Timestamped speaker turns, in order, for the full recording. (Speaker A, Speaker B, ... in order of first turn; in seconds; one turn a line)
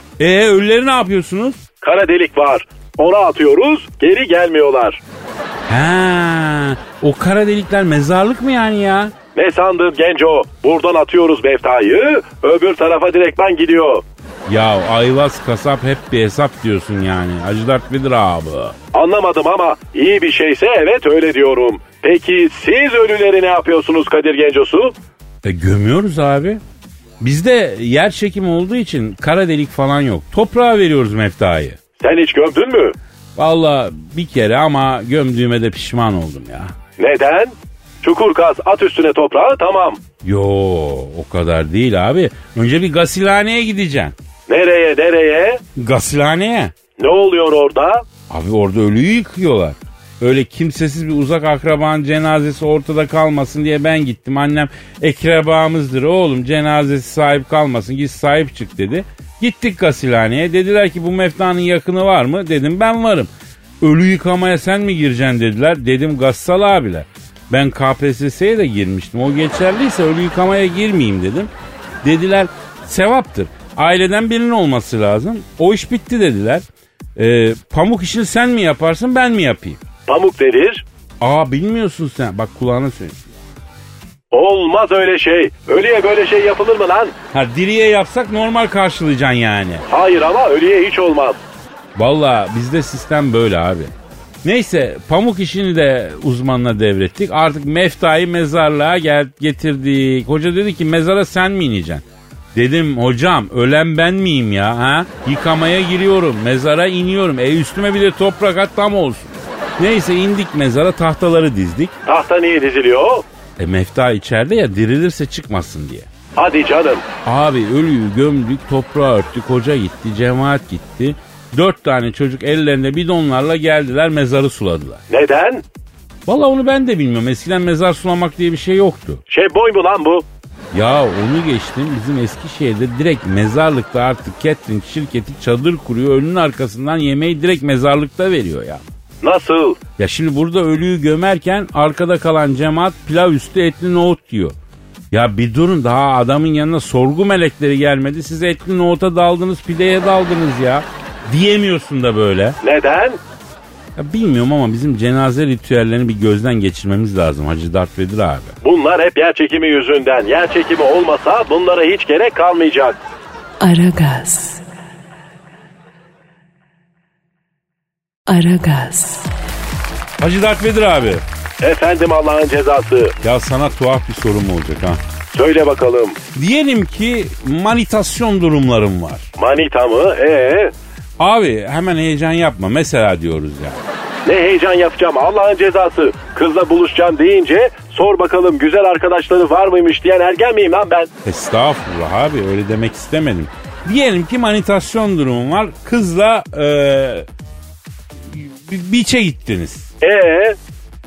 Speaker A: 0.2-1.6
Speaker B: 1.8-5.0
Speaker A: 5.7-9.1
Speaker B: 9.3-14.0
Speaker A: 14.5-18.8
Speaker B: 18.9-24.9
Speaker A: 25.4-26.6
Speaker A: 27.2-31.8
Speaker B: 32.0-32.9
Speaker A: 33.4-36.7
Speaker B: 37.0-40.0
Speaker A: 40.2-44.1
Speaker B: 44.5-45.6
Speaker A: 45.8-46.7
Speaker B: 47.0-48.0
Speaker A: 48.3-63.3
Speaker A: 63.8-71.5
Speaker A: 72.0-76.6
Speaker A: 77.2-79.8
Speaker B: 80.1-80.8
Speaker A: 81.2-83.3
Speaker B: 84.3-87.1
Speaker A: 87.3-89.8
Speaker B: 89.9-91.4
Speaker A: 92.0-93.9
Speaker A: 94.4-102.0
Speaker A: 102.5-111.9
Speaker B: 112.0-113.2
Speaker A: 113.6-116.1
Speaker B: 116.3-117.0
Speaker A: 117.2-125.0
Speaker B: 125.1-125.6
Speaker A: 126.3-129.2
Speaker B: 129.3-130.2
Speaker A: 130.7-138.8
Speaker B: 139.2-139.8
Speaker A: 140.0-144.5
Speaker A: 145.1-152.6
Speaker B: 152.6-153.2
Speaker A: 153.9-158.6
Speaker B: 158.6-163.0
Speaker C: 163.6-164.6
Speaker C: 168.3-169.3
Speaker A: 170.2-171.2
Speaker B: 171.6-173.1
Speaker A: 173.2-175.0
Speaker B: 175.3-176.2
Speaker A: 176.3-179.3
Speaker B: 179.4-180.7
Speaker A: 181.2-183.8
Speaker B: 184.2-191.1
Speaker A: 191.2-197.2
Speaker A: 198.3-199.9
Speaker B: 200.0-200.6